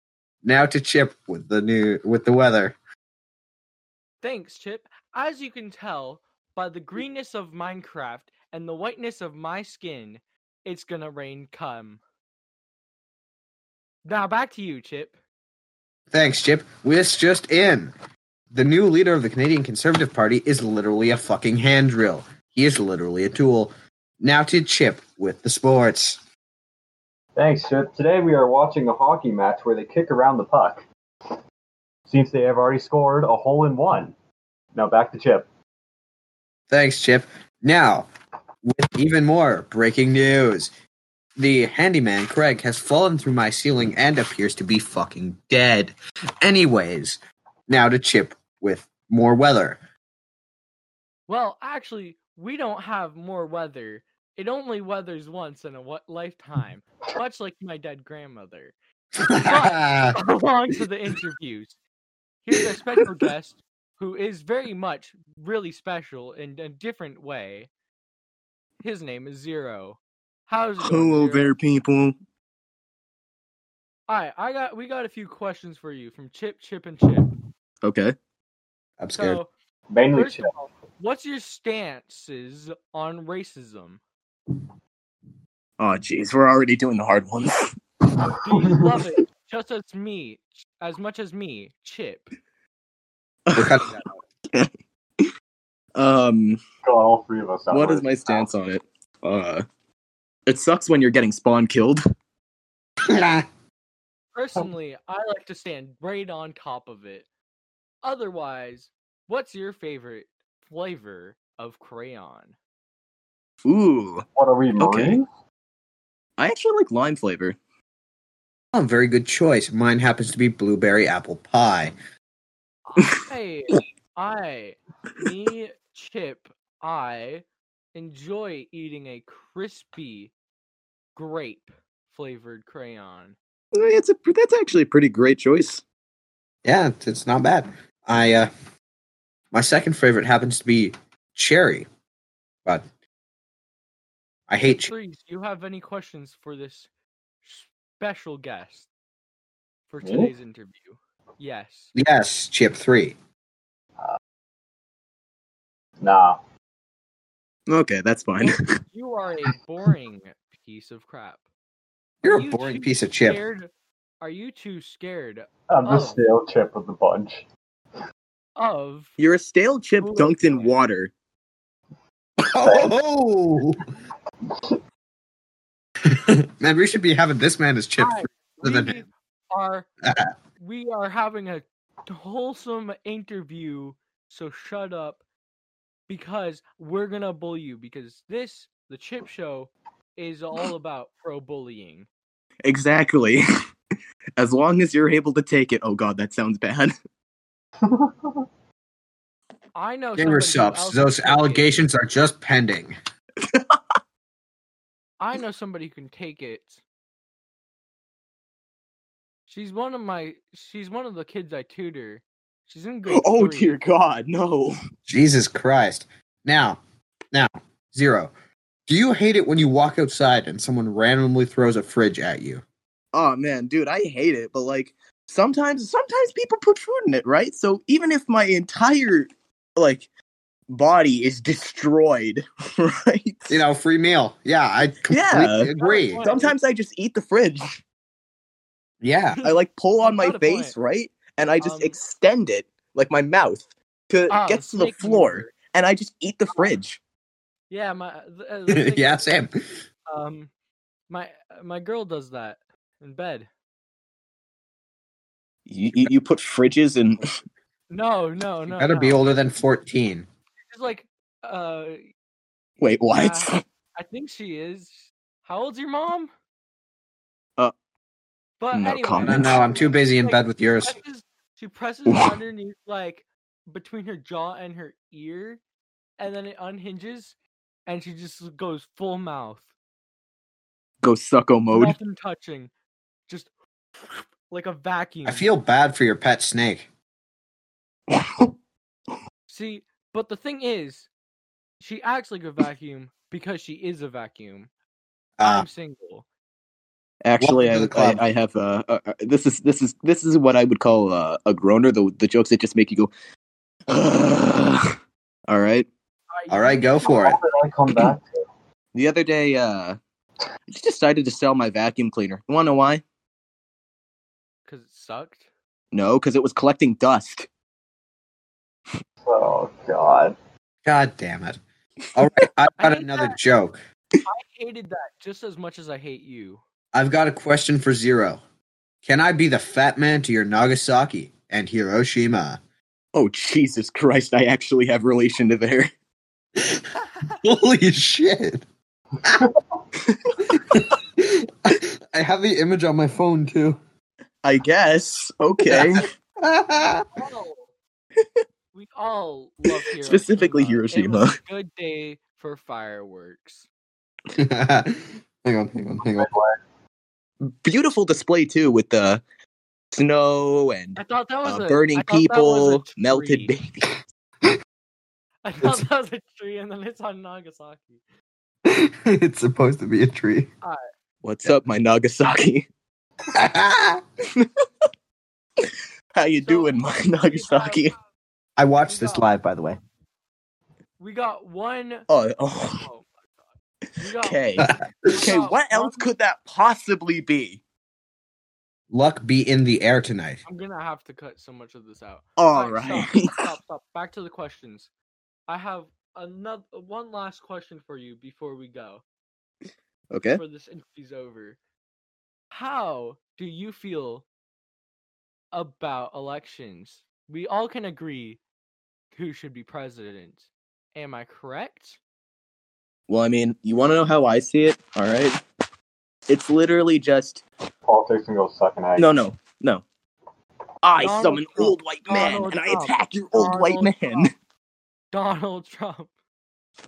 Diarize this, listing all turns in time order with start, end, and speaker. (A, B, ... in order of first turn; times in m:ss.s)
0:00.4-0:02.8 A
0:04.2-0:12.0 B
0:14.0-0:15.2 B
0:16.1-0:17.9 A
0:18.5-0:26.2 A
0:27.4-0:30.8 C
0:32.1-0:34.1 C
0:34.7-0:35.5 C
0:36.7-0:38.1 A
0:38.7-0:40.7 A
0:41.4-0:49.8 A
0:51.3-0:58.7 B
0:59.2-1:00.1 A
0:59.4-1:01.8 B
1:02.4-1:07.7 B
1:08.8-1:11.5 B
1:10.8-1:12.2 D
1:14.1-1:17.3 B
1:17.8-1:18.1 D
1:19.0-1:19.4 A
1:19.1-1:19.5 B
1:19.9-1:20.4 C
1:20.1-1:24.0 B
1:25.8-1:27.6 D
1:28.4-1:32.3 B
1:33.5-1:33.8 D
1:33.6-1:33.8 A
1:33.8-1:34.2 B
1:34.5-1:35.3 D
1:36.0-1:36.6 D
1:36.8-1:38.5 C
1:37.7-1:39.6 D
1:40.5-1:42.0 D
1:43.1-1:43.4 A
1:44.3-1:47.3 B
1:48.0-1:52.6 B
1:53.6-1:54.2 D
1:54.3-1:55.3 C
1:54.8-1:55.2 D
1:56.4-1:57.6 D
1:58.7-2:01.9 A
2:02.9-2:10.3 B
2:11.2-2:13.4 B
2:13.7-2:15.8 D
2:16.6-2:18.5 A
2:19.5-2:21.9 A
2:24.5-2:24.9 A
2:24.6-2:26.9 B
2:27.4-2:28.9 B
2:29.9-2:31.9 B
2:30.0-2:30.3 C
2:31.9-2:33.2 A
2:36.0-2:36.4 C
2:37.7-2:38.6 D
2:38.4-2:41.4 B
2:42.2-2:43.4 A
2:42.2-2:46.2 B
2:45.7-2:47.4 C
2:48.6-2:49.2 B
2:49.2-2:51.1 D
2:50.0-2:50.8 B
2:52.5-2:53.8 A
2:52.6-2:52.9 C
2:56.3-2:59.0 A
2:58.0-2:59.9 B
3:00.6-3:05.2 B
3:06.1-3:12.1 B
3:12.6-3:13.4 D
3:14.4-3:16.9 D
3:17.9-3:18.3 C
3:19.7-3:21.8 B
3:20.2-3:22.9 A
3:23.5-3:23.8 D
3:25.2-3:26.8 B
3:29.5-3:33.7 B
3:33.1-3:34.7 D
3:35.1-3:36.8 A
3:37.3-3:38.3 A
3:38.9-3:42.6 A
3:43.1-3:50.1 D
3:50.7-3:53.6 D
3:53.5-3:56.2 A
3:55.1-3:57.6 D
3:55.8-3:56.6 B
3:59.0-3:59.4 A
3:59.4-4:00.7 B
3:59.4-4:07.0 D
4:01.6-4:02.0 B
4:04.3-4:05.5 B
4:06.5-4:06.8 B
4:07.7-4:09.3 B
4:08.7-4:09.5 A
4:10.1-4:10.5 B
4:11.1-4:13.5 B
4:15.7-4:17.2 D
4:17.9-4:19.3 B
4:18.7-4:20.3 A
4:20.6-4:22.0 B
4:22.8-4:23.6 D
4:23.1-4:26.3 B
4:28.6-4:35.6 B
4:28.7-4:29.7 D
4:29.2-4:31.0 A
4:36.2-4:37.4 B
4:37.9-4:39.7 B
4:41.0-4:42.0 D
4:41.7-4:42.7 B
4:43.3-4:43.5 B
4:44.5-4:45.5 B
4:45.2-4:46.9 A
4:48.1-4:48.5 D
4:49.5-4:51.1 B
4:51.8-4:54.7 B
4:55.4-4:55.7 A
4:55.4-4:56.2 B
4:57.2-5:03.1 D
4:57.4-4:58.2 A
5:03.9-5:04.8 D
5:05.5-5:05.9 D
5:06.3-5:07.2 B
5:06.5-5:07.4 A
5:07.0-5:08.4 C
5:08.9-5:10.0 D
5:10.7-5:13.0 D
5:14.6-5:15.5 B
5:15.9-5:17.5 D
5:19.2-5:20.3 C
5:20.8-5:21.6 A
5:22.1-5:23.8 A
5:22.8-5:23.4 B
5:24.3-5:26.6 B
5:26.9-5:28.4 A
5:29.0-5:32.6 A
5:33.1-5:35.9 D
5:37.4-5:38.6 A
5:40.5-5:43.8 A
5:44.4-5:46.1 D
5:45.6-5:47.0 A
5:47.1-5:47.7 B
5:48.7-5:53.7 B
5:50.0-5:51.3 D
5:54.4-5:56.3 A
5:56.0-5:56.6 C
5:57.6-5:59.2 D
5:59.9-6:03.9 D
6:01.0-6:03.5 B
6:05.4-6:08.0 B
6:08.7-6:10.5 A
6:11.2-6:12.7 D
6:13.4-6:14.0 A
6:15.6-6:17.9 D
6:16.4-6:17.9 B
6:18.6-6:19.8 A
6:18.8-6:19.3 B
6:21.0-6:22.1 B
6:22.1-6:22.8 D
6:22.7-6:23.3 B
6:24.0-6:26.1 B
6:24.2-6:24.7 D
6:24.6-6:25.2 A
6:25.2-6:27.6 D
6:28.9-6:30.4 A
6:30.4-6:34.9 B
6:32.4-6:33.3 D
6:35.5-6:39.0 B
6:40.1-6:40.4 D
6:40.2-6:41.6 B
6:42.5-6:44.2 B
6:45.5-6:48.4 B
6:49.1-6:52.0 B
6:53.1-6:55.4 D
6:56.3-6:57.4 D
6:57.8-6:59.1 C
6:59.0-6:59.8 D
7:00.8-7:04.3 D
7:01.0-7:04.3 B
7:05.1-7:06.1 B